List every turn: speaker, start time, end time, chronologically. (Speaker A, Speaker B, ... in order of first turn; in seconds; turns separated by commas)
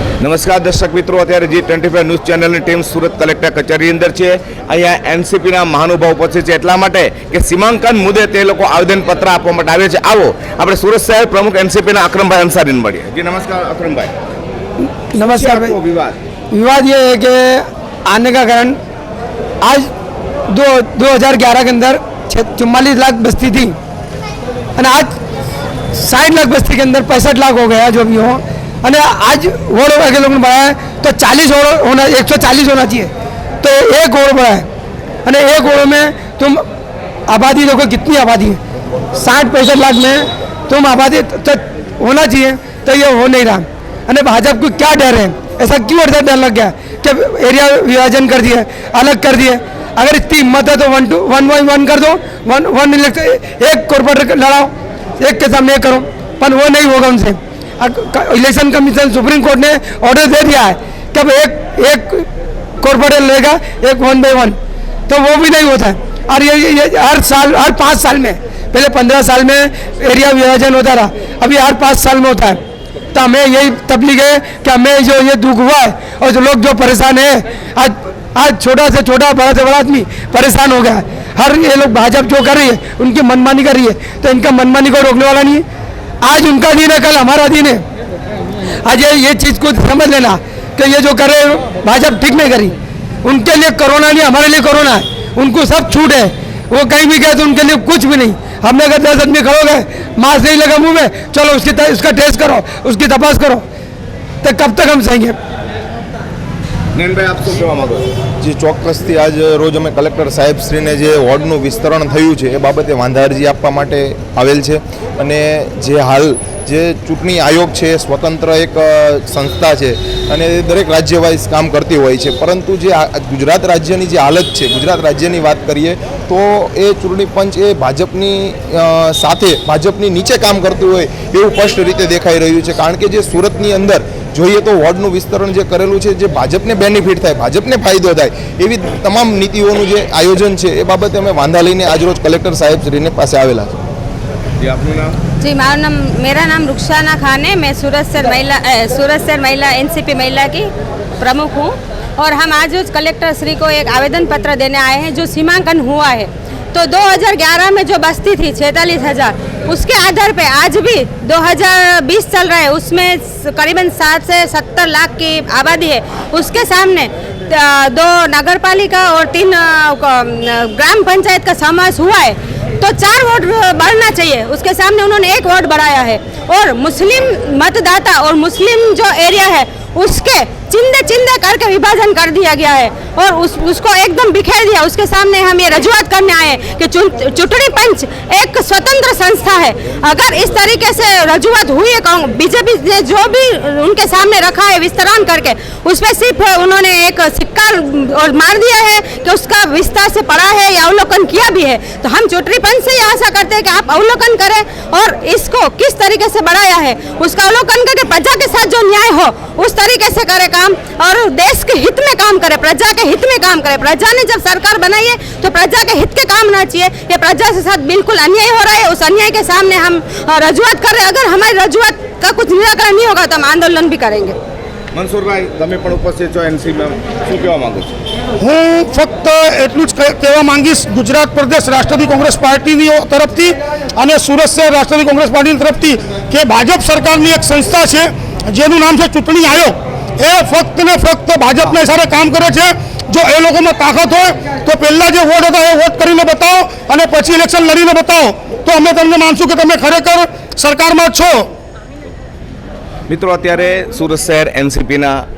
Speaker A: 0.2-14.1, Speaker B: 15.1-15.7, Speaker A: 15.1-16.2, Speaker B: 16.5-18.8, Speaker B: 19.6-19.9, Speaker B: 20.5-23.8, Speaker B: 24.8-25.2, Speaker B: 25.9-34.7, Speaker B: 35.2-36.6, Speaker B: 37.3-38.6, Speaker B: 39.1-62.3, Speaker B: 62.8-64.5, Speaker B: 65.1-72.6, Speaker B: 73.1-85.6, Speaker B: 86.2-87.8, Speaker B: 88.8-103.6, Speaker B: 104.4-105.4, Speaker A: 106.9-108.1, Speaker C: 108.4-143.8, Speaker A: 144.6-145.2, Speaker D: 145.4-224.4, Speaker A: 224.9-227.9, Speaker E: 228.4-251.5, Speaker A: 253.1-255.2